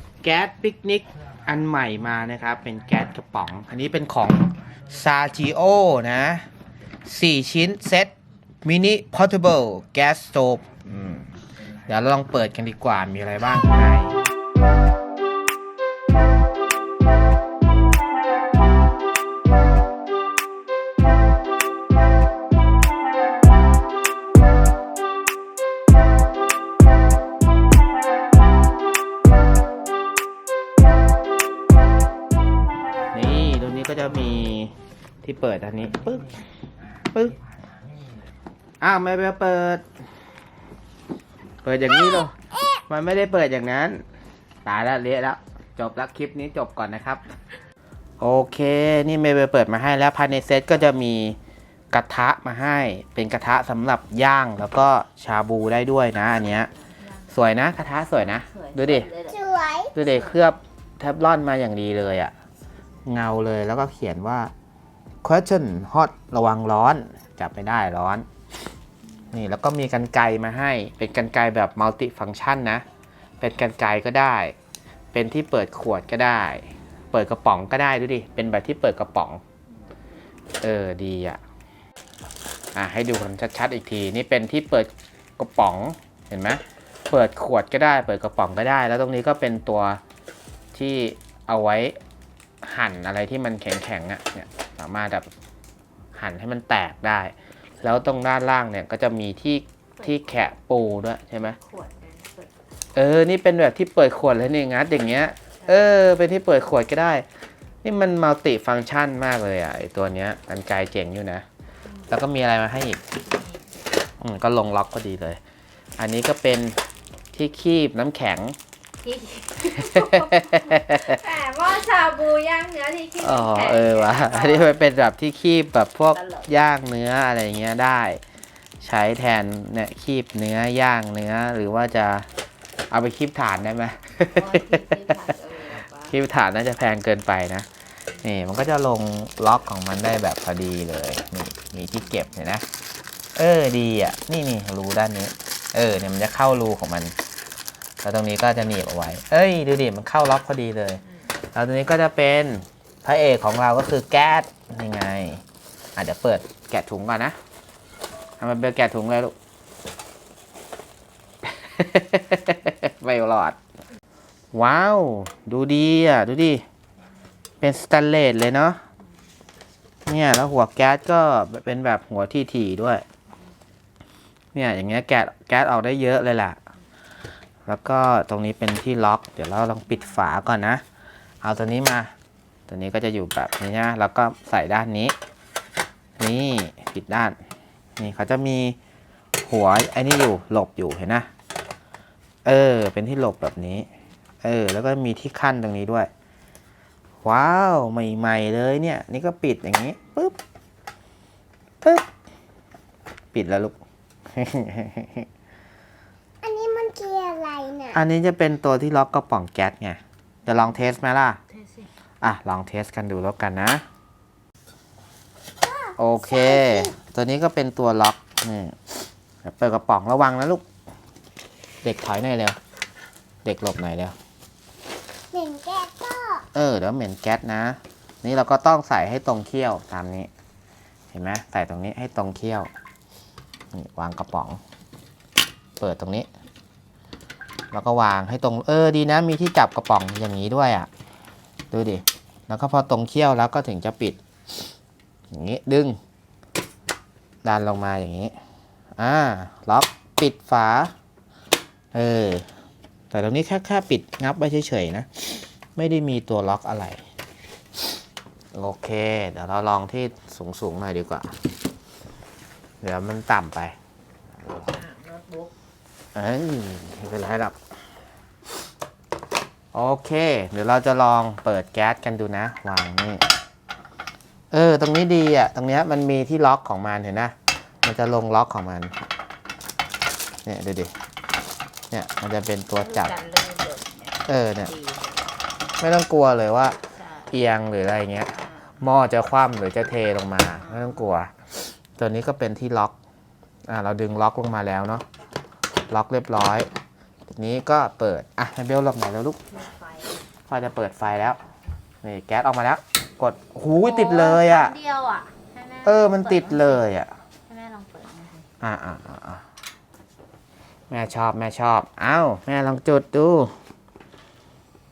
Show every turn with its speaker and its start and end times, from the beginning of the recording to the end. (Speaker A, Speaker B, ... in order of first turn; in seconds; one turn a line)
Speaker A: 0.2-6.5
Speaker A: 7.0-8.1
Speaker A: 8.7-11.3
Speaker A: 11.9-14.2
Speaker A: 33.1-36.4
Speaker A: 38.8-39.8
Speaker A: 41.6-44.0
Speaker A: 44.6-47.2
Speaker A: 48.2-51.4
Speaker A: 51.9-56.7
Speaker A: 57.3-59.1
Speaker B: 58.5-59.6
Speaker C: 59.3-59.9
Speaker A: 59.9-62.3
Speaker A: 63.0-64.5
Speaker A: 65.2-68.3
Speaker A: 69.3-72.8
Speaker A: 73.4-74.5
Speaker A: 75.1-79.4
Speaker A: 80.6-81.4
Speaker A: 82.8-90.0
Speaker A: 90.7-92.0
Speaker A: 92.6-95.3
Speaker A: 96.2-101.6
Speaker B: 100.0-100.4
Speaker B: 101.6-102.5
Speaker A: 103.0-107.2
Speaker A: 107.8-111.5
Speaker A: 112.1-113.0
Speaker A: 114.2-115.4
Speaker A: 116.0-116.8
Speaker A: 117.3-118.6
Speaker B: 119.0-124.8
Speaker A: 119.8-121.2
Speaker C: 121.2-122.8
Speaker A: 123.2-128.2
Speaker B: 126.1-126.5
Speaker A: 128.8-132.3
Speaker A: 132.9-135.0
Speaker B: 134.4-136.1
Speaker A: 135.9-137.7
Speaker A: 138.2-142.7
Speaker A: 143.3-147.2
Speaker A: 148.0-151.0
Speaker A: 151.5-155.4
Speaker A: 156.0-157.4
Speaker A: 158.4-159.3
Speaker A: 161.4-163.6
Speaker A: 164.5-166.6
Speaker A: 167.6-168.8
Speaker A: 170.1-173.0
Speaker A: 174.6-176.6
Speaker A: 177.7-180.8
Speaker A: 181.4-182.1
Speaker A: 182.7-185.2
Speaker A: 186.2-187.4
Speaker A: 188.0-188.8
Speaker A: 189.4-191.3
Speaker A: 192.4-193.9
Speaker A: 194.4-196.1
Speaker A: 197.2-200.4
Speaker A: 201.8-202.1
Speaker A: 203.3-203.8
Speaker A: 204.3-205.3
Speaker C: 206.4-208.0
Speaker A: 207.9-211.4
Speaker A: 212.2-213.8
Speaker C: 215.6-216.9
Speaker A: 216.0-220.6
Speaker A: 221.8-222.6
Speaker A: 223.4-224.2
Speaker C: 225.3-226.4
Speaker A: 226.5-230.3
Speaker A: 231.1-232.7
Speaker A: 233.7-234.6
Speaker A: 235.8-236.3
Speaker A: 237.7-240.9
Speaker A: 241.7-244.2
Speaker A: 245.3-246.0
Speaker A: 247.4-248.3
Speaker A: 249.0-250.9
Speaker A: 251.9-252.5
Speaker A: 253.1-257.0
Speaker A: 258.5-261.3
Speaker A: 262.8-263.8
Speaker A: 264.4-264.7
Speaker B: 264.7-265.5
Speaker A: 266.1-267.6
Speaker A: 269.7-273.2
Speaker A: 274.5-279.0
Speaker A: 280.4-280.9
Speaker A: 281.9-283.1
Speaker B: 282.8-285.3
Speaker A: 284.3-284.7
Speaker A: 285.8-286.8
Speaker A: 287.3-291.3
Speaker B: 290.6-290.9
Speaker A: 292.0-292.9
Speaker A: 293.7-295.1
Speaker A: 295.9-296.7
Speaker A: 297.3-299.4
Speaker B: 299.5-300.2
Speaker A: 300.5-301.4
Speaker A: 302.0-304.8
Speaker B: 303.8-306.9
Speaker A: 305.8-307.1
Speaker B: 307.5-308.4
Speaker A: 308.6-309.4
Speaker A: 310.9-313.5